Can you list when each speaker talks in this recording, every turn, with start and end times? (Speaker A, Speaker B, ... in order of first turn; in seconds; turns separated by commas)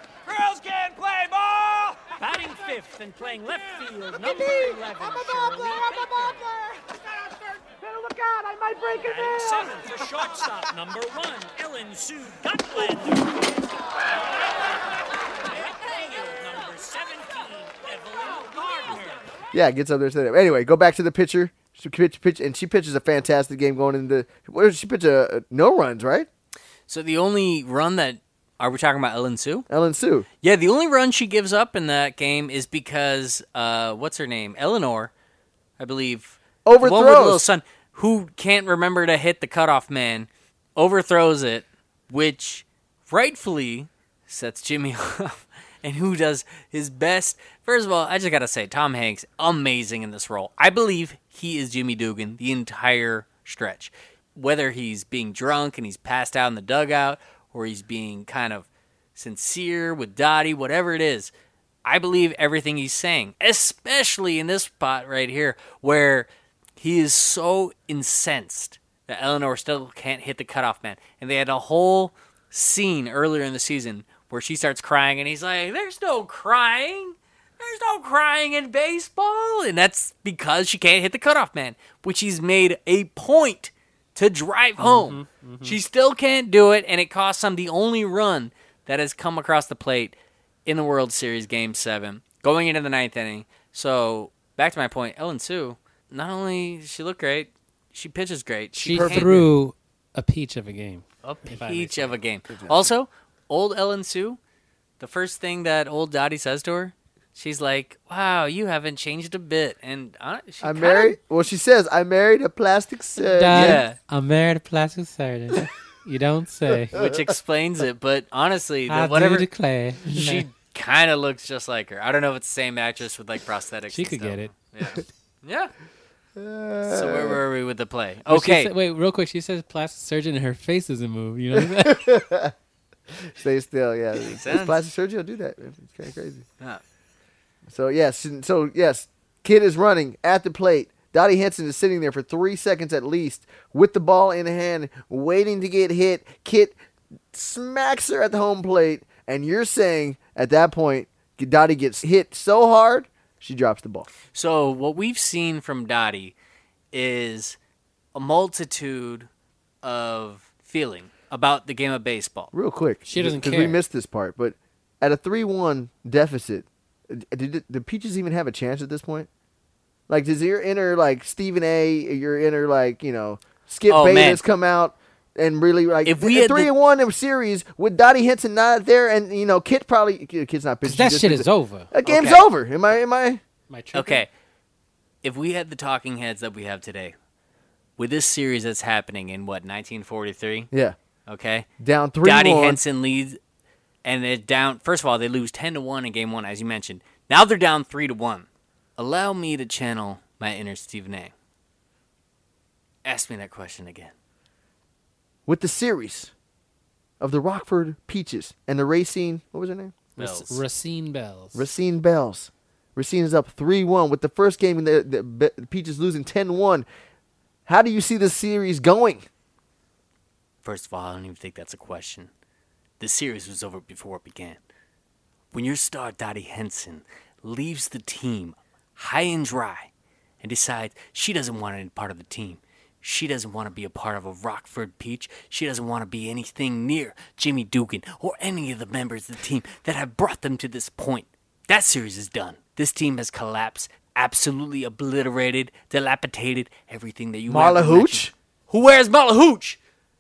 Speaker A: 0.3-6.4, Speaker B: 7.9-8.7, Speaker A: 9.0-13.5, Speaker B: 9.2-9.7, Speaker A: 15.5-19.2, Speaker B: 19.5-26.3, Speaker C: 26.9-29.7, Speaker B: 29.7-30.3, Speaker C: 30.4-35.1, Speaker C: 35.8-61.3, Speaker B: 36.6-37.5, Speaker C: 61.9-99.4, Speaker D: 84.8-85.8, Speaker D: 98.8-102.2, Speaker B: 98.9-99.5, Speaker C: 101.2-104.4, Speaker B: 102.5-102.9, Speaker C: 105.0-111.2, Speaker B: 110.6-113.8, Speaker D: 113.2-117.0, Speaker C: 113.5-114.0, Speaker C: 116.9-119.5, Speaker B: 117.0-117.2, Speaker D: 118.9-120.5, Speaker C: 120.1-125.7, Speaker D: 123.9-124.7, Speaker B: 126.4-127.4, Speaker C: 126.9-128.7, Speaker D: 128.3-132.1, Speaker B: 131.5-132.5, Speaker B: 133.2-136.5, Speaker C: 134.2-134.9, Speaker B: 137.7-146.8, Speaker B: 147.3-154.1, Speaker C: 154.3-156.4, Speaker C: 156.9-157.6, Speaker C: 158.2-159.3, Speaker C: 159.8-162.5, Speaker B: 162.5-169.3, Speaker D: 163.1-163.8, Speaker B: 170.1-183.4, Speaker C: 173.9-174.4, Speaker C: 176.1-176.7, Speaker D: 180.8-181.9, Speaker C: 182.1-182.4, Speaker D: 183.7-184.3, Speaker C: 183.9-184.3, Speaker C: 185.2-187.2, Speaker C: 188.0-190.7, Speaker B: 190.7-191.0, Speaker C: 191.3-191.7, Speaker B: 191.8-192.8, Speaker C: 192.2-193.4, Speaker C: 194.0-198.5, Speaker C: 199.0-201.3, Speaker C: 203.0-204.1, Speaker B: 205.5-206.3, Speaker B: 207.2-209.9, Speaker D: 210.2-211.7, Speaker C: 210.2-210.6, Speaker B: 211.5-216.9, Speaker B: 217.7-219.2, Speaker C: 220.6-222.3, Speaker C: 223.0-224.6, Speaker C: 225.5-229.9, Speaker C: 230.4-249.8, Speaker B: 247.5-248.3